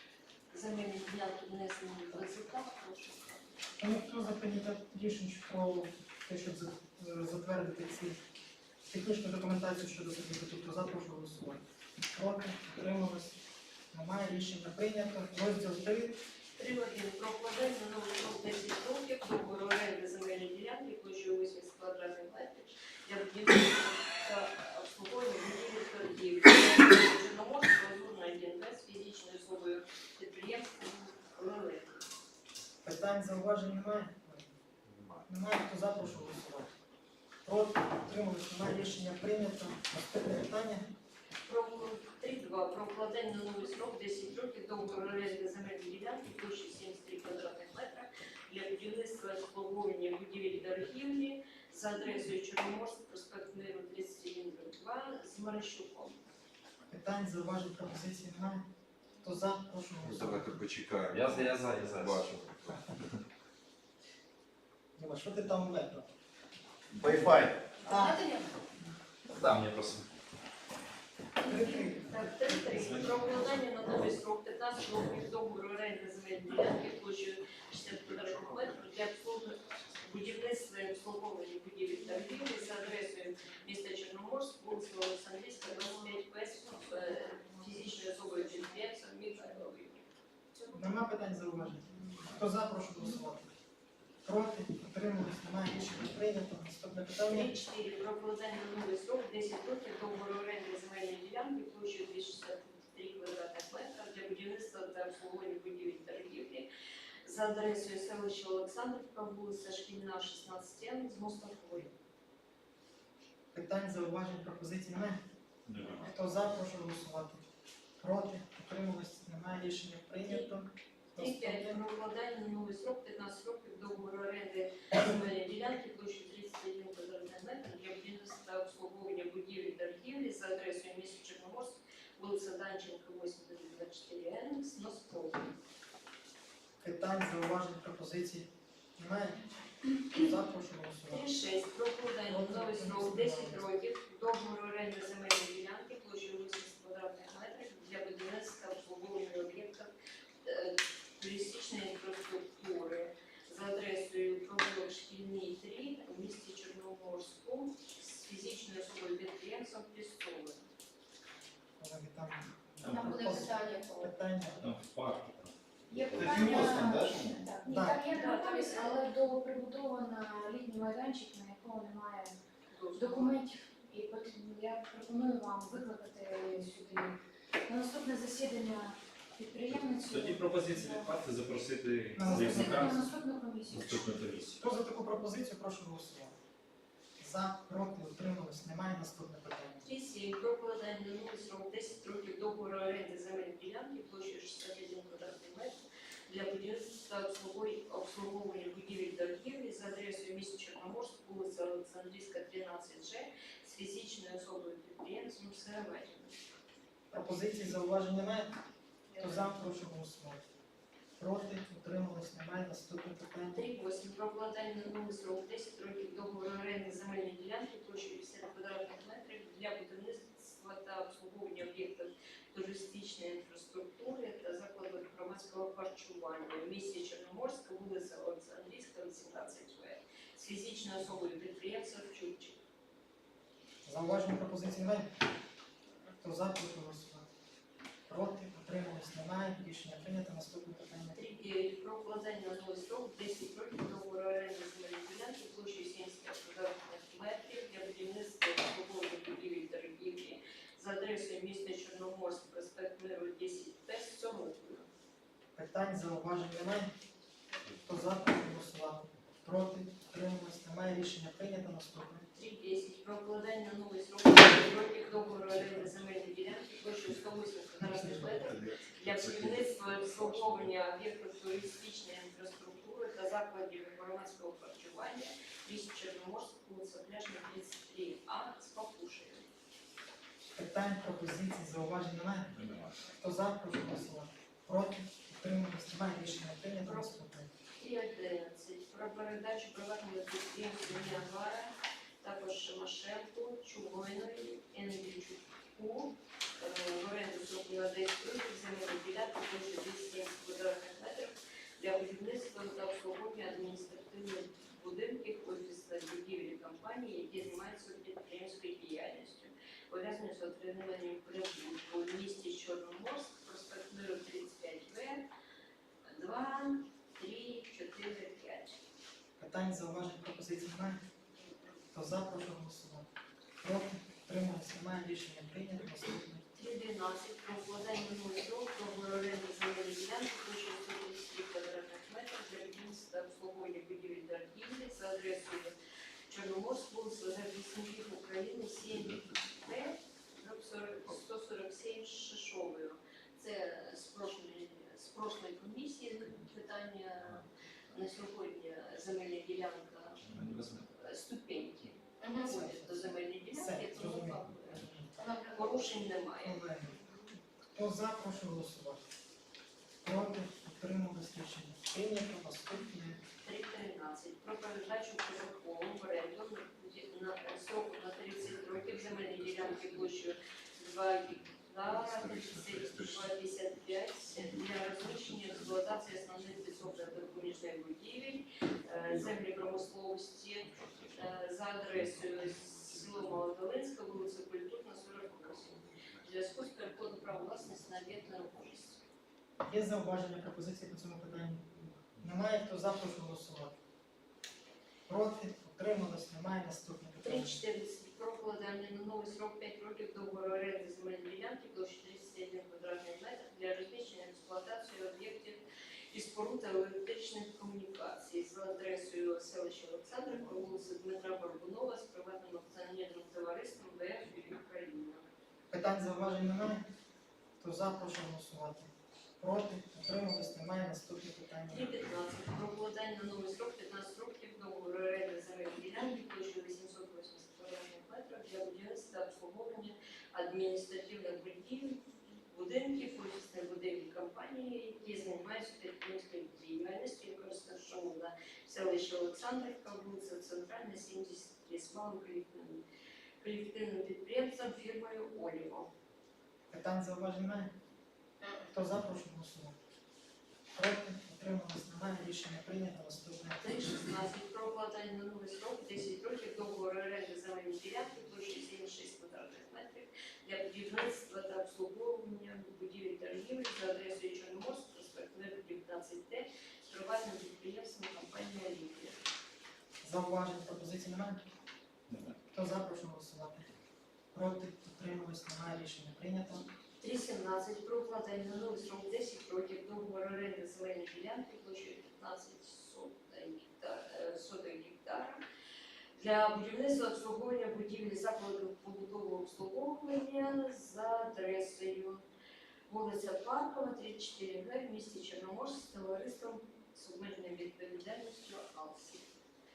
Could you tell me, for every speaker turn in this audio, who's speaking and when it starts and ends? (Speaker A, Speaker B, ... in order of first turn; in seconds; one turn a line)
Speaker A: 0.5-4.0
Speaker B: 3.8-8.2
Speaker B: 8.9-11.6
Speaker B: 12.1-13.4
Speaker B: 13.9-16.2
Speaker A: 16.6-32.1
Speaker B: 32.8-34.5
Speaker C: 34.9-35.2
Speaker B: 35.3-36.7
Speaker B: 37.4-40.9
Speaker A: 41.5-56.2
Speaker B: 56.9-58.6
Speaker B: 59.2-60.6
Speaker C: 60.0-62.9
Speaker D: 61.1-62.4
Speaker B: 65.0-66.1
Speaker E: 66.9-67.6
Speaker B: 67.8-68.2
Speaker A: 67.9-68.5
Speaker E: 69.3-69.6
Speaker D: 69.4-70.1
Speaker A: 71.4-90.0
Speaker B: 71.4-73.0
Speaker D: 72.8-73.5
Speaker C: 78.0-78.8
Speaker F: 81.9-83.0
Speaker F: 85.6-89.7
Speaker F: 90.5-90.8
Speaker B: 90.7-93.5
Speaker B: 94.2-97.5
Speaker A: 97.2-106.7
Speaker A: 107.2-111.9
Speaker B: 113.5-115.2
Speaker D: 115.7-116.1
Speaker B: 116.0-117.4
Speaker B: 118.0-121.8
Speaker A: 120.2-120.5
Speaker A: 121.2-135.5
Speaker B: 136.8-139.4
Speaker B: 140.1-141.3
Speaker A: 141.1-149.9
Speaker B: 142.3-143.6
Speaker A: 150.4-160.6
Speaker B: 161.8-164.6
Speaker D: 162.8-163.1
Speaker F: 162.9-164.1
Speaker A: 163.2-164.0
Speaker D: 164.6-166.6
Speaker F: 165.9-172.3
Speaker E: 166.1-167.5
Speaker A: 167.7-169.0
Speaker B: 167.7-168.0
Speaker A: 172.7-173.4
Speaker F: 172.9-181.2
Speaker D: 179.7-184.6
Speaker B: 182.2-182.9
Speaker F: 182.2-184.1
Speaker B: 184.6-186.3
Speaker B: 187.2-189.9
Speaker A: 189.8-206.4
Speaker B: 207.1-208.5
Speaker A: 209.1-209.5
Speaker B: 209.2-210.4
Speaker B: 211.2-213.6
Speaker A: 213.5-232.6
Speaker B: 233.8-235.1
Speaker B: 236.2-237.3
Speaker B: 238.1-241.2
Speaker A: 241.1-254.9
Speaker B: 255.6-256.9
Speaker B: 257.8-262.3
Speaker A: 262.3-279.5
Speaker B: 267.8-268.3
Speaker C: 268.1-270.6
Speaker B: 280.5-282.5
Speaker D: 282.5-283.0
Speaker B: 283.2-287.5
Speaker A: 286.8-287.1
Speaker A: 287.8-315.2
Speaker A: 316.0-318.8
Speaker B: 319.4-321.0
Speaker B: 321.9-323.1
Speaker B: 323.6-326.4
Speaker A: 326.5-335.7
Speaker A: 336.3-356.7
Speaker D: 350.2-350.9
Speaker B: 352.4-355.1
Speaker F: 355.2-355.7
Speaker B: 356.4-357.0
Speaker B: 357.7-359.0
Speaker B: 360.0-363.2
Speaker A: 363.4-389.0
Speaker C: 371.8-373.3
Speaker C: 375.1-375.9
Speaker C: 380.8-381.1
Speaker C: 385.5-386.2
Speaker B: 389.6-393.7
Speaker B: 395.1-397.6
Speaker A: 397.2-415.3
Speaker B: 415.7-416.8
Speaker B: 417.6-421.9
Speaker A: 421.7-442.8
Speaker A: 443.4-445.9
Speaker B: 446.7-447.7
Speaker B: 448.6-449.8
Speaker B: 450.7-454.0
Speaker A: 453.6-469.2
Speaker B: 470.0-471.4
Speaker D: 472.1-472.4
Speaker B: 472.5-473.7
Speaker B: 474.3-476.6
Speaker A: 477.0-485.4
Speaker A: 486.1-492.2
Speaker A: 492.9-499.3